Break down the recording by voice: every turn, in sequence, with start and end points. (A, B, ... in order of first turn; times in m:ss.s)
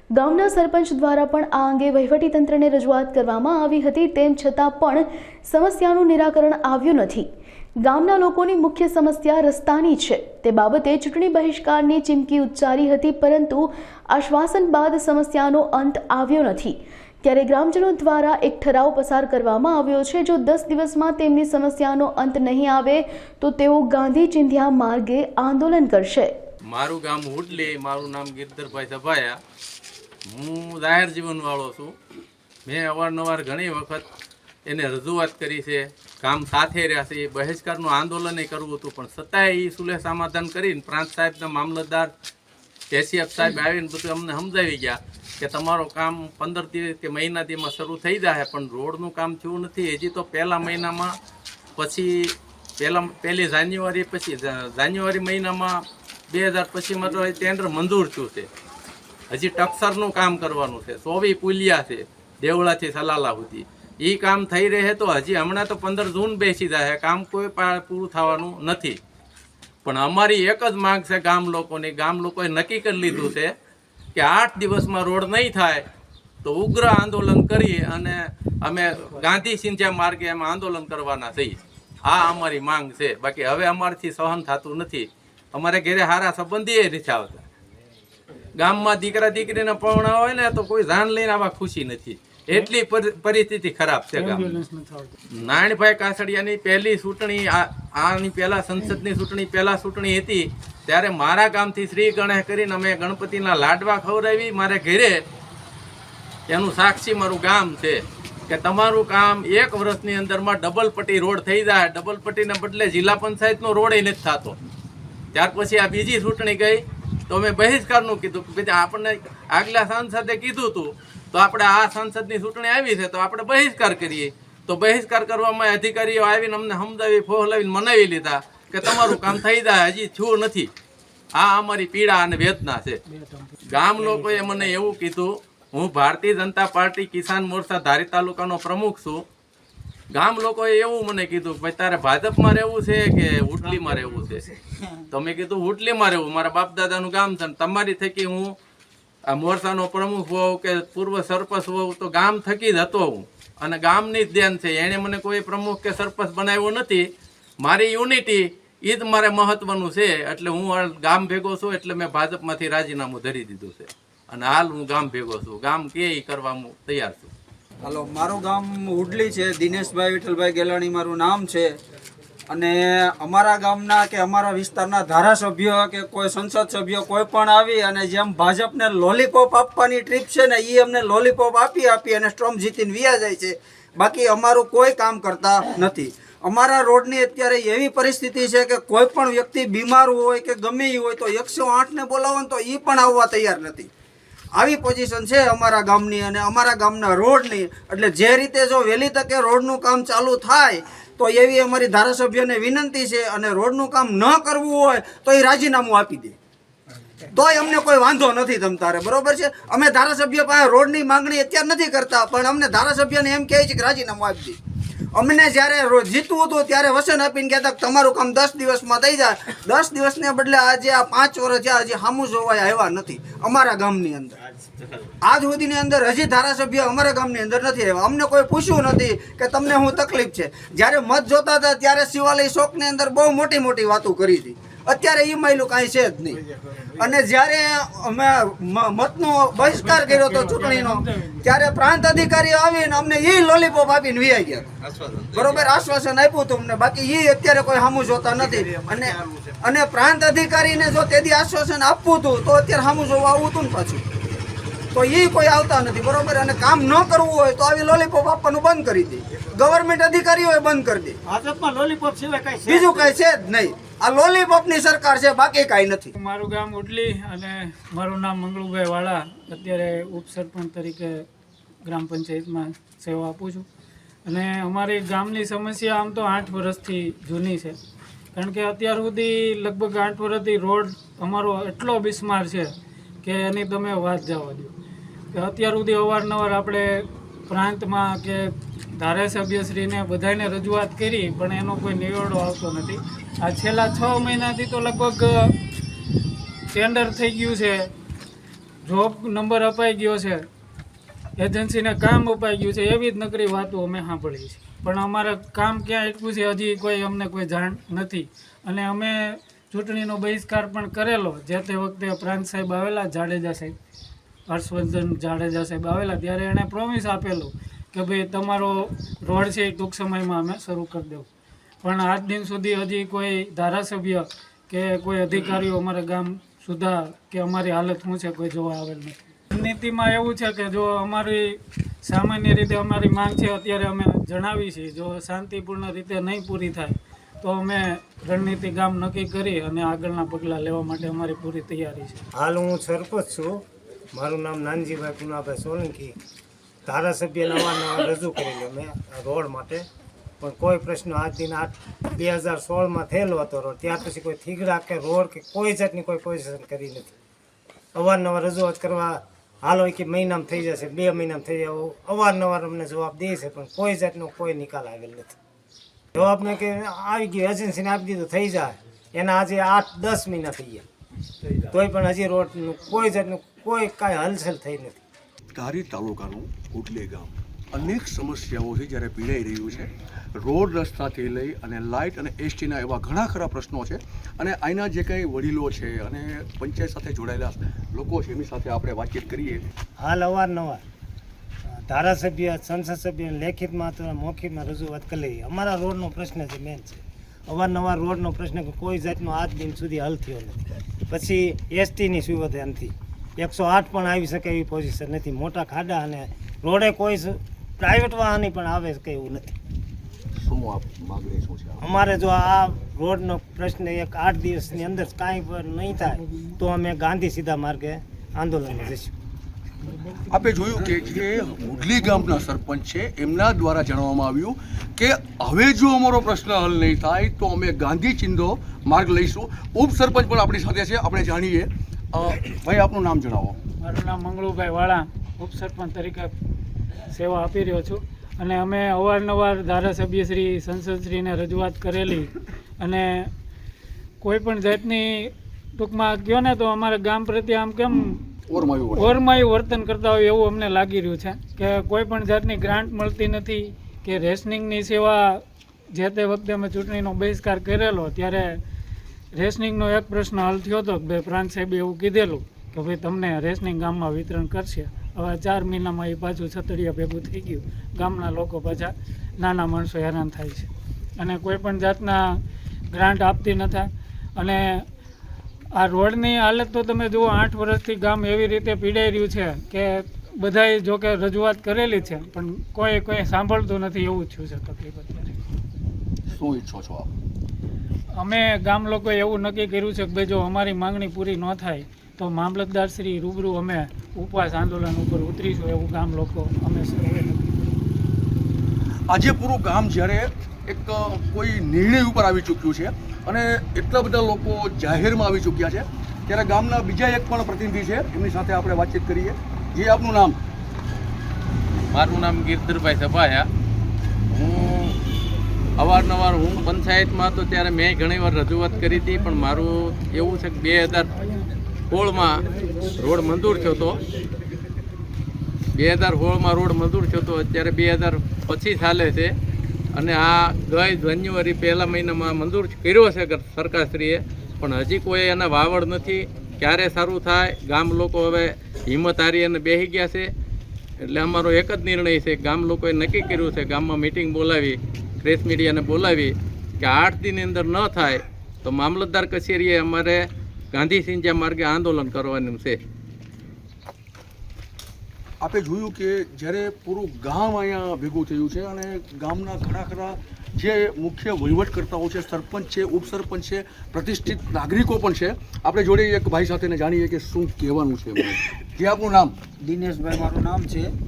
0:00.1-0:07.3 A
0:07.8-0:26.3 A
0:26.7-0:29.4 B
0:30.3-0:31.9 B
0:32.6-0:34.0 B
0:34.6-0:42.1 B
0:42.9-0:51.1 B
0:51.8-0:58.5 B
0:59.3-1:09.0 B
1:09.8-1:13.5 B
1:14.1-1:15.8 B
1:16.4-1:27.4 B
1:28.6-1:34.6 B
1:34.2-1:35.1 C
1:35.3-1:45.2 B
1:46.5-1:54.6 B
1:55.3-2:10.7 B
2:11.4-2:13.0 B
2:13.1-2:13.5 C
2:13.7-2:19.2 B
2:20.1-2:24.4 B
2:25.1-2:28.5 B
2:29.3-2:37.0 B
2:37.6-2:47.3 B
2:47.8-2:51.7 D
2:52.5-3:13.9 D
3:14.5-3:26.4 D
3:27.3-3:34.6 D
3:35.1-3:44.4 D
3:45.2-4:04.7 D
3:59.7-4:01.4 C
4:05.3-4:14.1 D
4:14.9-4:21.2 D
4:21.3-4:22.9 E
4:22.6-4:26.1 D
4:26.2-4:31.2 C
4:31.8-4:33.7 C
4:34.2-4:37.8 C
4:38.3-4:44.7 C
4:45.3-4:55.6 C
4:56.7-4:57.9 C
4:58.8-5:00.4 C
5:01.4-5:13.7 C
5:14.5-5:21.3 C
5:21.8-5:42.2 C
5:42.3-5:43.6 E
5:44.1-5:46.2 E
5:46.8-5:49.8 E
5:50.4-5:57.1 E
5:57.9-6:05.4 E
6:06.1-6:10.8 E
6:11.5-6:15.0 E
6:15.5-6:29.7 F
6:30.0-6:30.8 E
6:31.8-6:49.5 E
6:50.4-6:51.8 F
6:51.8-6:59.1 E
7:00.2-7:13.6 F
7:13.8-7:16.3 C
7:17.1-7:23.3 C
7:24.2-7:28.2 C
7:28.5-7:29.2 F
7:28.9-7:35.4 C
7:35.9-7:38.6 C
7:39.3-7:50.7 C
7:51.2-7:52.4 C
7:52.9-7:54.8 C
7:55.8-8:05.3 C
8:06.2-8:07.1 F
8:08.2-8:17.6 C
8:19.1-8:30.4 F
8:31.9-8:33.5 B
8:34.3-8:35.0 B
8:35.8-8:41.1 B
8:41.9-8:42.4 B
8:42.9-8:44.0 B
8:45.8-8:49.3 B
8:49.9-9:00.3 B
9:01.0-9:12.8 B
9:15.4-9:29.3 F
9:29.6-9:30.9 D